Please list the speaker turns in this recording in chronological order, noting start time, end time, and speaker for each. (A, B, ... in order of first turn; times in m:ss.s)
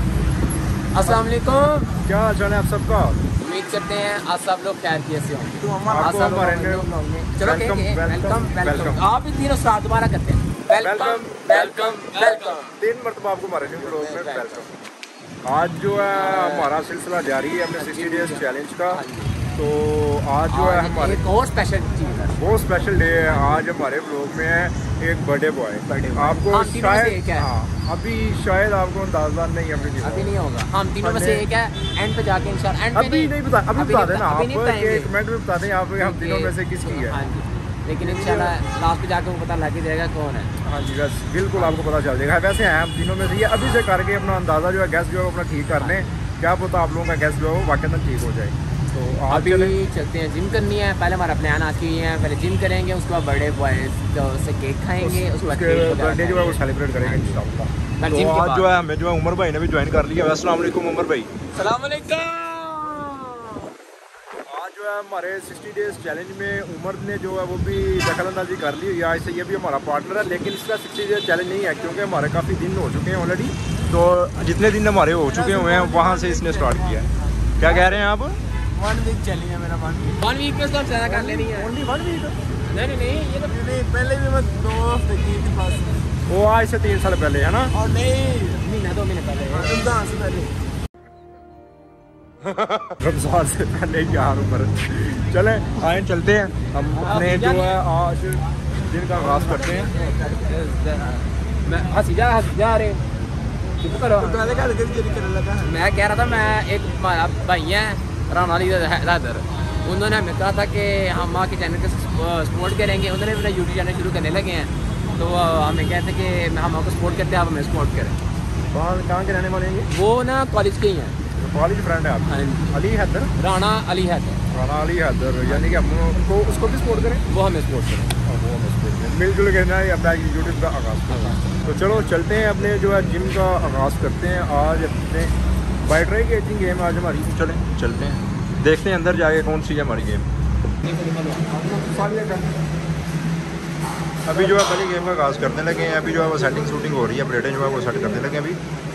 0:00.9-0:01.9 A
0:02.0-0:03.2 B
0:03.4-0:12.7 A
0:05.6-0:06.9 C
0:05.8-0:06.9 B
0:07.4-0:09.0 B
0:10.8-0:14.7 B
0:13.7-0:14.7 A
0:15.4-0:19.0 B
0:16.1-0:16.7 A
0:17.8-0:19.3 A
0:19.5-0:21.2 B
0:20.5-0:22.4 A
0:22.4-0:30.3 B
0:25.8-0:27.5 A
0:30.0-0:35.1 A
0:31.0-0:31.5 B
0:32.9-0:37.2 B
0:36.0-0:40.5 A
0:38.0-0:38.6 B
0:40.6-0:49.8 B
0:45.8-0:46.1 A
0:49.3-0:57.4 A
0:55.0-1:01.3 B
0:58.0-0:58.7 A
1:01.6-1:03.5 A
1:04.4-1:17.1 B
1:15.2-1:17.8 C
1:17.6-1:18.4 B
1:18.8-1:20.2 C
1:20.2-1:21.8 A
1:21.0-1:22.4 C
1:22.7-1:23.6 A
1:23.4-1:26.0 C
1:26.3-1:27.7 B
1:27.7-1:28.6 C
1:28.5-1:30.0 A
1:29.5-1:30.5 C
1:32.8-1:39.9 B
1:36.9-1:37.8 A
1:40.0-1:43.0 A
1:43.8-1:44.5 A
1:44.1-1:45.7 C
1:45.6-1:58.2 A
1:58.7-1:59.9 B
1:59.9-2:01.2 A
2:01.3-2:03.3 B
2:02.2-2:02.8 A
2:03.4-2:04.4 A
2:04.5-2:07.2 B
2:05.4-2:05.8 A
2:07.3-2:08.1 A
2:08.2-2:15.3 B
2:11.1-2:11.6 A
2:15.8-2:20.3 B
2:21.0-2:21.6 A
2:21.3-2:22.5 C
2:24.3-2:28.6 B